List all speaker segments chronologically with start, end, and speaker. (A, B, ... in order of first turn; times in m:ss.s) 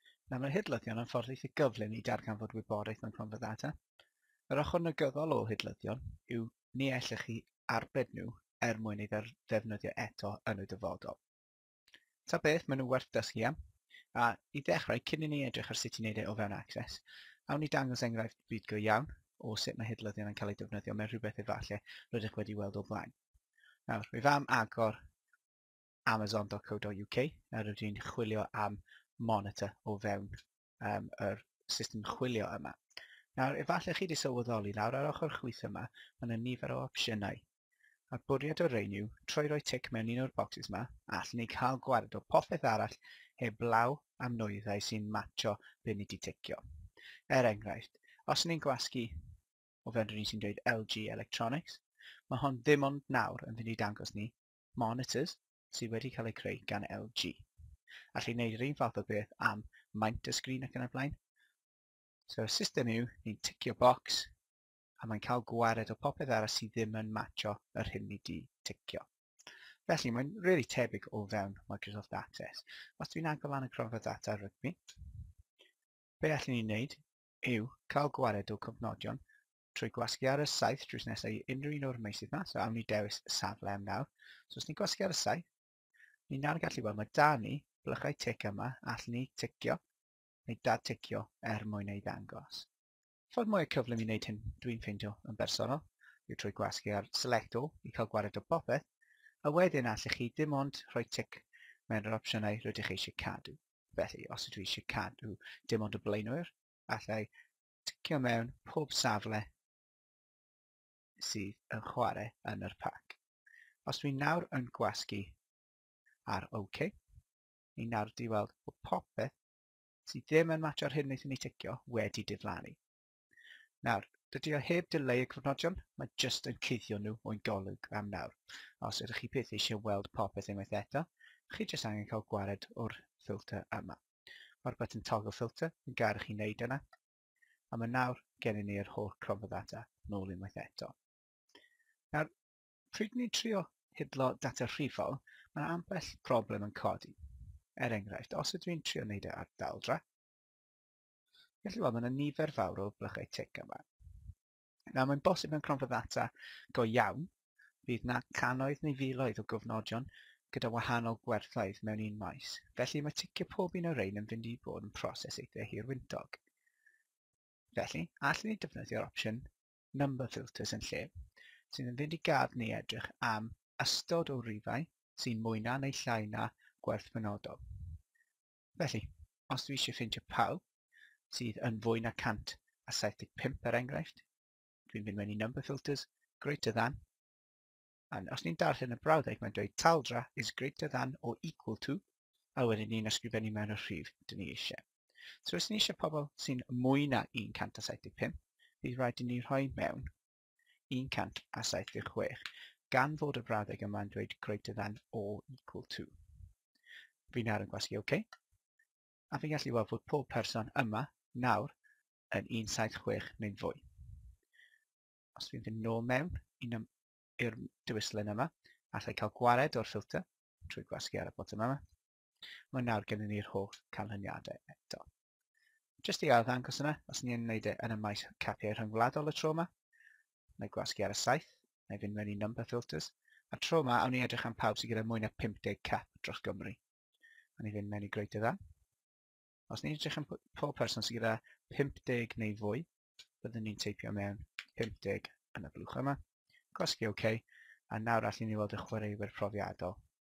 0:00.3-0:03.8 A
0:04.5-0:11.2 A
0:12.3-0:13.6 A
0:14.1-0:23.1 A
0:23.9-0:25.0 A
0:26.1-0:32.8 A
0:33.4-0:37.4 A
0:38.1-0:46.6 A
0:47.3-0:49.1 A
0:49.8-0:57.5 A
0:58.2-1:01.2 A
1:02.3-1:04.3 A
1:05.0-1:09.1 A
1:09.9-1:14.8 A
1:16.2-1:19.2 A
1:19.7-1:25.5 A
1:26.3-1:29.8 A
1:30.5-1:32.7 A
1:33.3-1:38.8 A
1:39.4-1:47.3 A
1:47.9-1:49.5 A
1:51.2-1:53.2 A
1:53.9-1:55.4 A
1:56.3-1:56.9 A
1:57.8-1:59.4 A
2:00.1-2:02.8 A
2:03.8-2:14.0 A
2:14.6-2:16.8 A
2:17.7-2:20.9 A
2:22.9-2:27.2 A
2:27.8-2:30.0 A
2:31.6-2:33.8 A
2:34.9-2:37.3 A
2:37.8-2:46.4 A
2:47.8-2:51.1 A
2:51.7-2:57.6 A
2:58.8-3:00.6 A
3:01.3-3:04.2 A
3:04.9-3:07.0 A
3:08.1-3:12.0 A
3:12.6-3:14.8 A
3:15.4-3:20.1 A
3:20.9-3:22.4 A
3:22.9-3:26.1 A
3:27.3-3:28.2 A
3:29.3-3:31.7 A
3:32.3-3:33.8 A
3:35.4-3:36.9 A
3:37.4-3:41.8 A
3:42.7-3:45.0 A
3:46.0-3:49.7 A
3:50.6-3:56.8 A
3:57.6-3:58.6 A
3:59.7-4:02.9 A
4:03.4-4:06.2 A
4:06.7-4:10.0 A